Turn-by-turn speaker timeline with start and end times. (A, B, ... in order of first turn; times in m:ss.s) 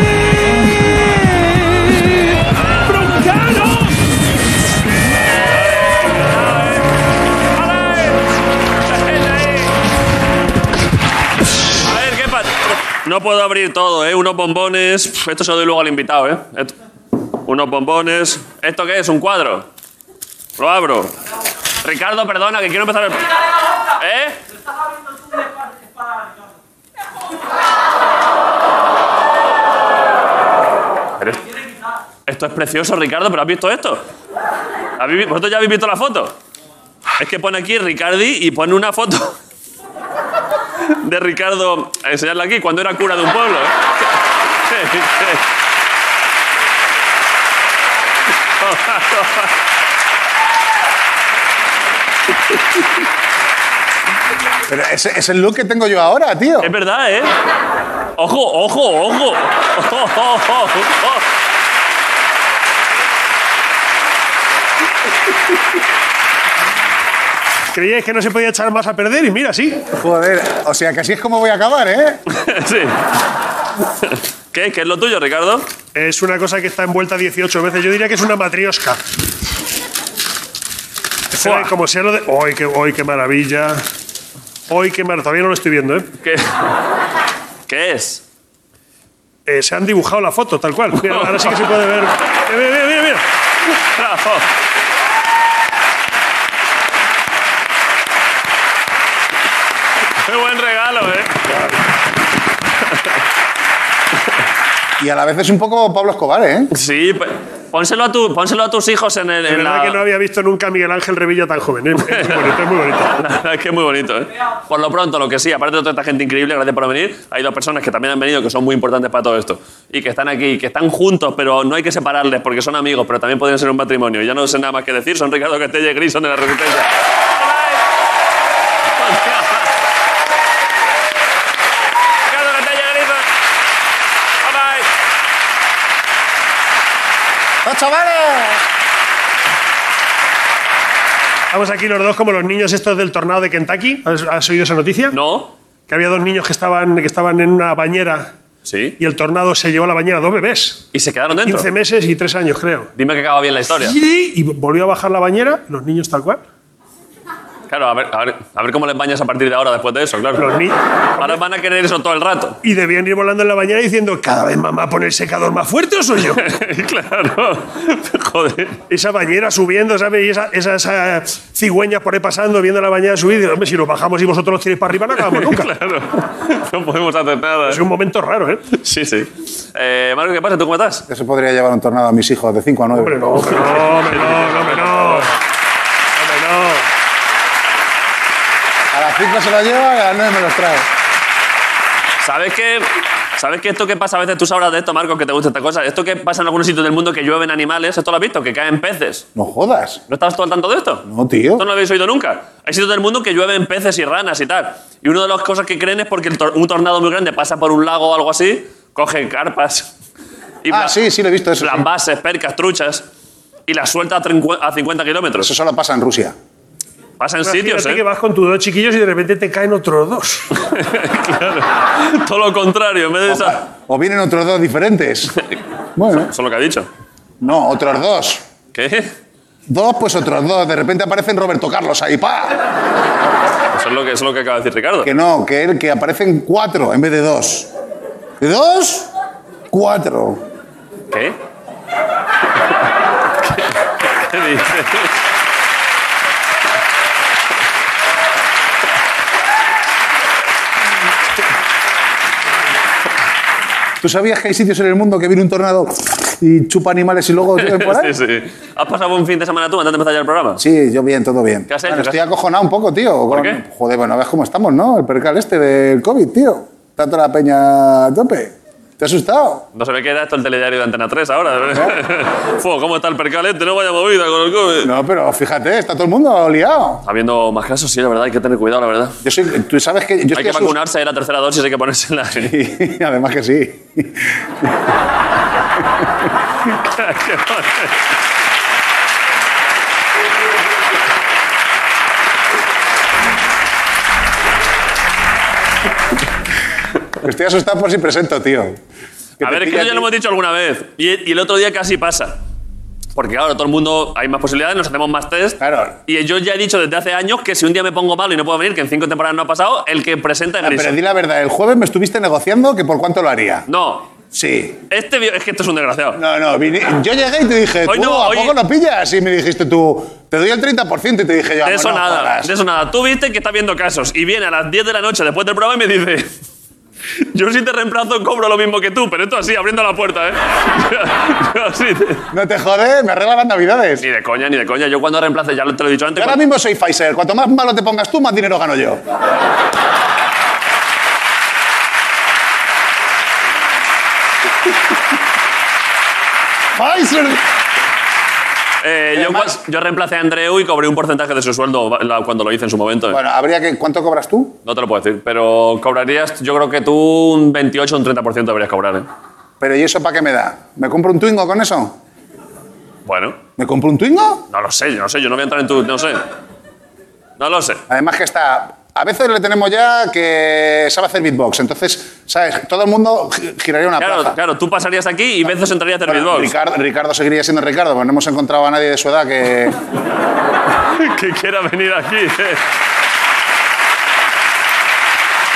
0:01.2-0:02.3 A
0:02.9-0:03.9 A
0:05.4-0:06.9 B
0:07.5-0:08.3 B
0:08.8-0:09.8 B
0:11.8-0:16.7 B
0:17.4-0:19.7 B
0:20.6-0:21.1 B
0:21.8-0:23.3 B
0:24.0-0:24.4 B
0:31.2-0:31.5 B
0:32.3-0:34.0 B
0:35.0-0:36.4 B
0:37.2-0:39.4 B
0:40.9-0:43.8 B
0:44.7-0:45.4 B
0:48.6-0:49.5 B
0:54.7-0:56.7 C
0:56.6-0:57.3 B
0:58.2-1:01.2 B
1:07.7-1:09.8 A
1:10.0-1:12.2 C
1:12.3-1:13.0 B
1:14.0-1:15.7 B
1:15.9-1:19.0 A
1:21.3-1:23.8 A
1:21.4-1:21.7 B
1:24.7-1:26.1 A
1:26.2-1:26.5 B
1:27.7-1:28.2 B
1:29.5-1:33.2 A
1:31.0-1:31.5 B
1:33.9-1:34.5 B
1:40.2-1:41.4 B
1:45.0-1:46.7 C
1:46.7-1:50.0 B
1:49.5-1:53.1 A
1:52.1-1:52.5 B
1:53.1-2:07.8 B
2:08.9-2:09.7 B
2:12.3-2:13.3 B
2:14.4-2:14.9 B
2:17.6-2:18.6 C
2:21.5-2:25.2 A
2:25.1-2:25.5 B
2:25.9-2:28.3 A
2:28.7-2:29.0 B
2:29.0-2:30.8 A
2:30.9-2:31.7 B
2:31.4-2:32.9 A
2:33.0-2:34.0 B
2:33.8-2:36.4 A
2:37.7-2:40.6 B
2:40.4-2:41.4 A
2:41.2-2:42.6 B
2:42.6-2:46.5 A
2:46.4-2:48.8 B
2:48.9-2:55.7 A
2:55.2-2:57.8 B
2:57.7-2:58.7 A
2:58.7-3:01.0 B
3:01.1-3:03.2 C
3:03.0-3:05.3 A
3:03.9-3:05.3 B
3:06.2-3:06.9 A
3:08.9-3:10.9 C
3:12.2-3:19.3 B
3:19.4-3:20.0 C
3:20.1-3:21.0 B
3:21.1-3:21.6 C
3:21.6-3:29.9 B
3:30.6-3:30.9 B
3:30.7-3:31.8 C
3:31.6-3:33.0 B
3:33.7-3:35.5 B
3:35.4-3:36.4 C
3:37.2-3:38.0 B
3:37.4-3:40.5 A
3:40.6-3:43.6 B
3:43.3-3:45.4 C
3:46.0-3:46.3 C
3:46.1-3:46.9 B
3:47.4-3:48.4 C
3:48.7-3:49.1 B
3:49.7-3:52.6 C
3:53.7-3:55.1 B
3:55.0-3:57.7 C
3:58.4-3:59.1 C
3:59.7-4:00.4 C
4:01.1-4:01.4 B
4:03.4-4:03.7 B
4:04.3-4:05.1 B
4:14.0-4:18.2 C
4:17.6-4:20.6 B
4:20.6-4:29.6 C
4:21.7-4:22.2 B
4:23.3-4:23.6 B
4:29.8-4:34.9 B
4:34.8-4:37.0 C
4:37.1-4:39.2 B
4:39.2-4:40.8 C
4:40.3-4:42.5 B
4:42.4-4:44.7 C
4:46.7-4:48.0 B
4:57.2-4:58.8 C
4:59.4-5:00.1 C
4:59.4-5:02.4 B
5:03.2-5:10.9 B
5:05.6-5:06.0 C
5:10.6-5:13.7 C
5:13.7-5:14.1 B
5:14.3-5:14.8 C
5:14.9-5:16.2 B
5:16.2-5:22.5 C
5:17.9-5:18.6 B
5:21.6-5:26.3 B
5:27.3-5:32.3 B
5:32.3-5:34.0 C
5:34.0-5:36.4 B
5:36.2-5:39.0 C
5:46.8-5:47.4 C
5:48.8-5:53.2 B
5:49.2-5:49.5 C
5:53.1-5:54.6 C
5:54.6-5:59.1 B
5:59.6-6:02.0 C
6:03.1-6:03.4 B
6:03.6-6:04.5 C
6:04.5-6:06.2 B
6:07.4-6:07.8 B
6:07.9-6:14.4 C
6:14.0-6:16.5 B
6:16.1-6:19.8 C
6:21.0-6:22.6 B